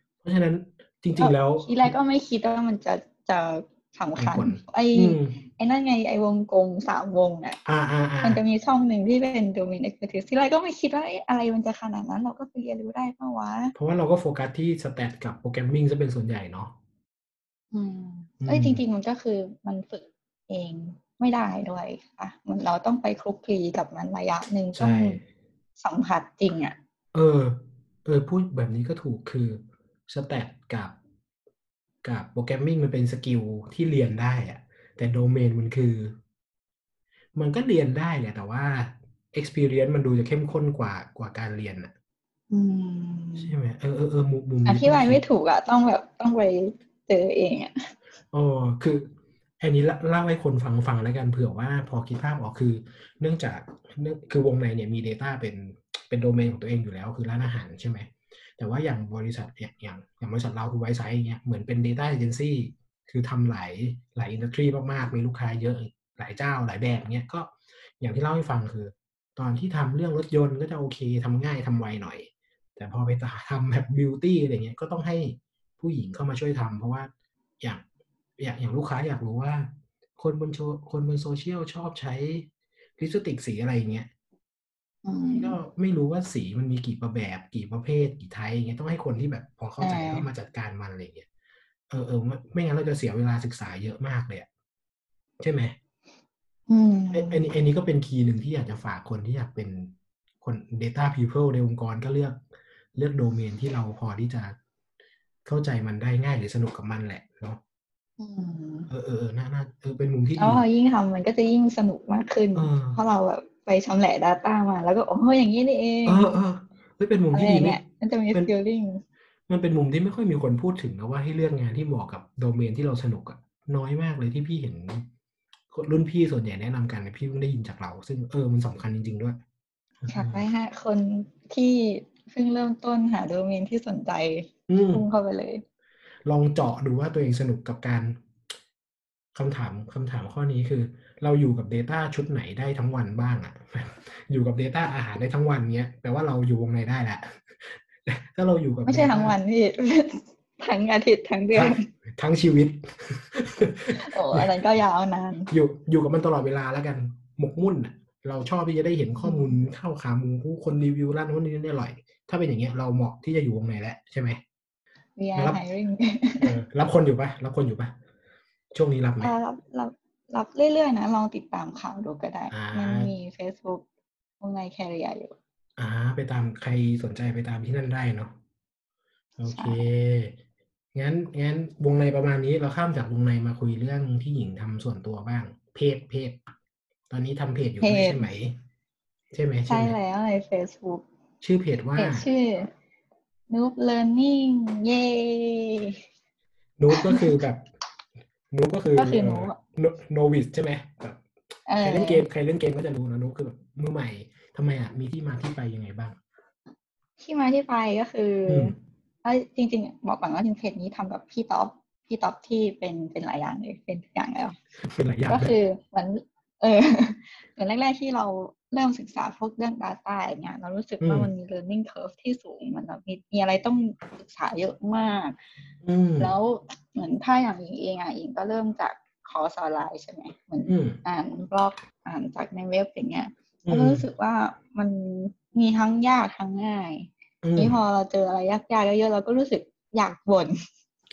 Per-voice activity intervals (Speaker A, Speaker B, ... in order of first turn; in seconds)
Speaker A: 0.2-1.9, 4.2-5.4, 7.7-8.4, 13.8-16.7, 18.4-18.8, 24.7-25.2, 27.1-31.0, 32.0-36.2, 37.4-41.9, 43.4-45.2, 48.3-77.8, 78.4-82.5, 83.0-84.1, 85.4-91.3, 91.9-94.5, 95.4-95.8, 97.1-102.4, 103.0-104.6, 105.5-107.6, 108.9-110.6, 112.5-113.0, 116.1-117.8, 119.5-125.1, 125.7-129.4, 130.0-130.5, 134.7-135.0, 136.3-138.2, 139.3-149.4, 151.5-154.5, 155.5-164.4, 165.3-165.6, 166.4-168.0, 168.7-169.3, 172.5-173.1, 175.8-178.3, 179.4-180.4, 180.9-186.5, 187.1-188.6, 189.3-190.0, 191.4-192.3, 196.8-197.7, 198.5-201.2, 201.8-206.2, 208.5-208.8, 214.8-215.5, 221.0-221.3, 225.8-226.3, 230.7-231.0, 233.7-234.1, 237.4-237.8
Speaker B: 1.2-7.6, 8.2-13.7, 17.7-25.2, 25.8-26.8, 42.5-43.5, 44.6-47.7, 85.0-85.6, 89.8-90.2, 96.7-97.4, 108.2-108.9, 110.4-116.3, 117.3-119.0, 130.1-135.6, 148.8-151.9, 153.9-155.5, 159.2-159.6, 165.2-166.5, 169.2-173.8, 174.4-175.3, 179.5-179.8, 187.8-188.3, 189.7-191.1, 192.0-192.7, 193.5-196.0, 196.9-197.3, 199.0-199.6, 201.7-202.2, 207.2-214.6, 215.3-225.4, 226.2-240.6